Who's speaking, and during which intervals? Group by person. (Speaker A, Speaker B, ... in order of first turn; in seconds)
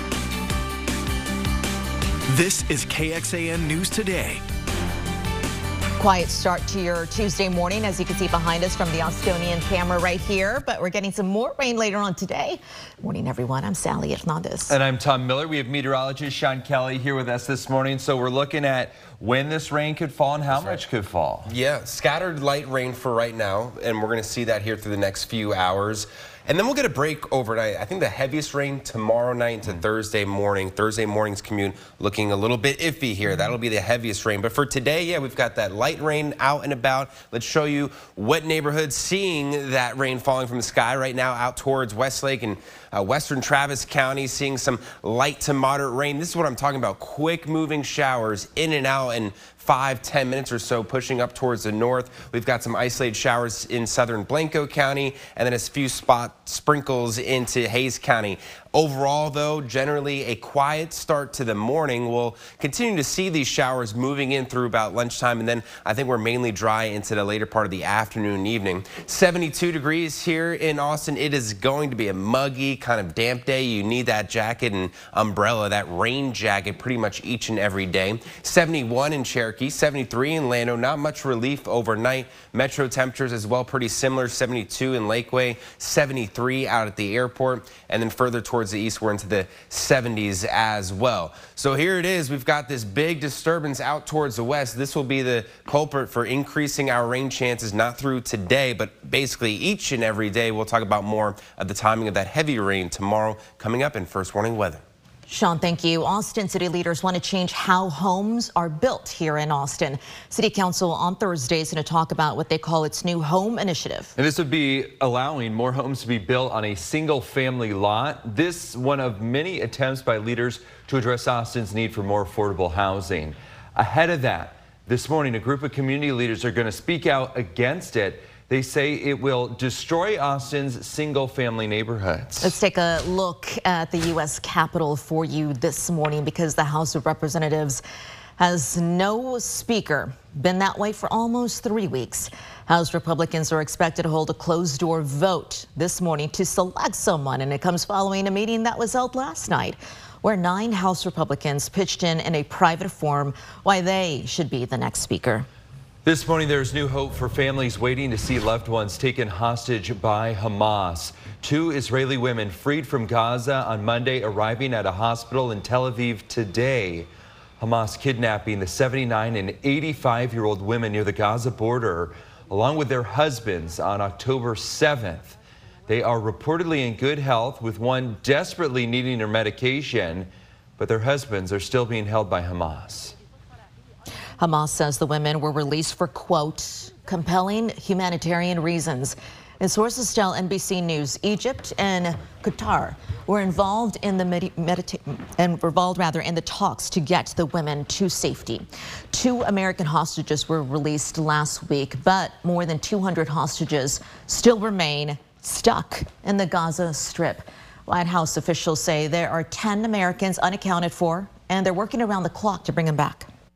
Speaker A: 2.3-4.4
Speaker B: 6.0-14.8, 105.3-114.1, 132.4-137.8, 138.4-155.5, 184.4-213.3
Speaker C: 14.7-21.5, 114.2-132.6, 156.0-175.3, 175.9-183.2
Speaker D: 20.5-20.8, 21.4-104.8